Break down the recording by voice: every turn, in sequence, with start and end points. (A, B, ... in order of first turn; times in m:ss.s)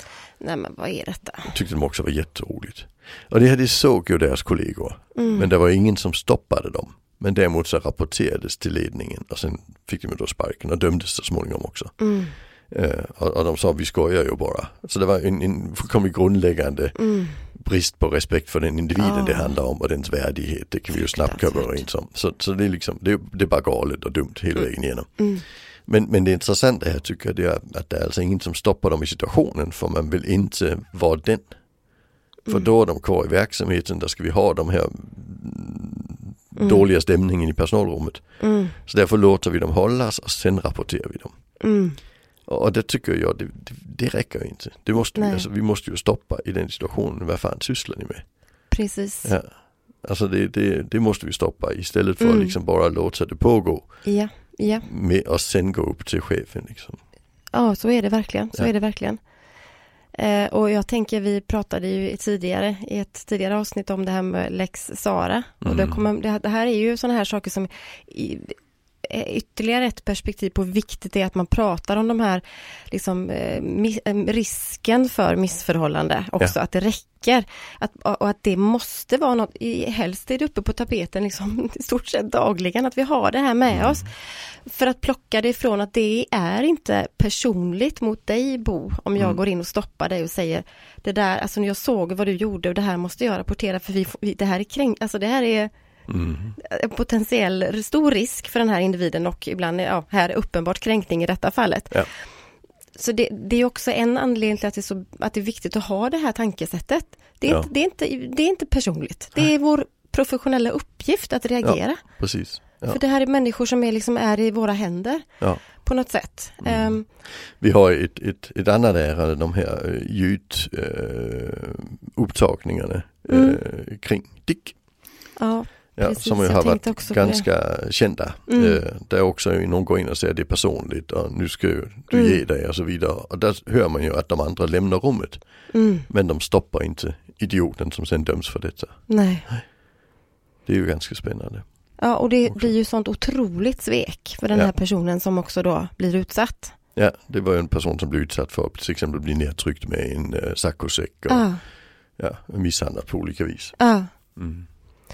0:00.4-0:01.5 A
0:01.5-0:11.9 B
0:05.1-0:05.5 A
0:12.0-0:12.4 A
0:12.7-0:25.2 B
0:17.0-0:17.4 A
0:19.0-0:19.6 A
0:20.9-0:21.8 A
0:25.2-0:25.4 A
0:25.8-0:31.5 B
0:32.5-0:38.2 B
0:36.6-0:36.8 A
0:38.4-0:38.8 A
0:38.8-0:41.3 B
0:41.6-0:42.0 A
0:42.5-0:48.2 B
0:45.2-0:45.4 A
0:48.7-0:49.3 A
0:50.0-0:53.9 B
0:52.2-0:52.6 A
0:54.0-0:54.9 A
0:54.8-0:57.0 B
0:57.5-0:59.2 A
1:00.1-1:35.7 A
1:05.6-1:06.0 B
1:36.1-1:36.5 B
1:36.6-1:42.1 A
1:43.0-1:52.0 A
1:51.6-1:53.0 B
1:52.9-1:57.0 A
1:56.6-1:57.0 B
1:57.6-2:04.8 B
2:03.3-2:03.6 A
2:05.4-2:07.5 A
2:06.0-2:15.4 B
2:08.5-2:08.8 A
2:12.1-2:12.4 A
2:15.7-2:16.0 A
2:16.1-2:19.0 B
2:19.1-2:19.5 A
2:20.6-2:21.6 B
2:22.0-2:26.7 A
2:27.0-2:31.5 B
2:31.3-2:31.6 A
2:32.2-2:33.8 B
2:33.8-2:34.1 A
2:34.4-2:34.6 B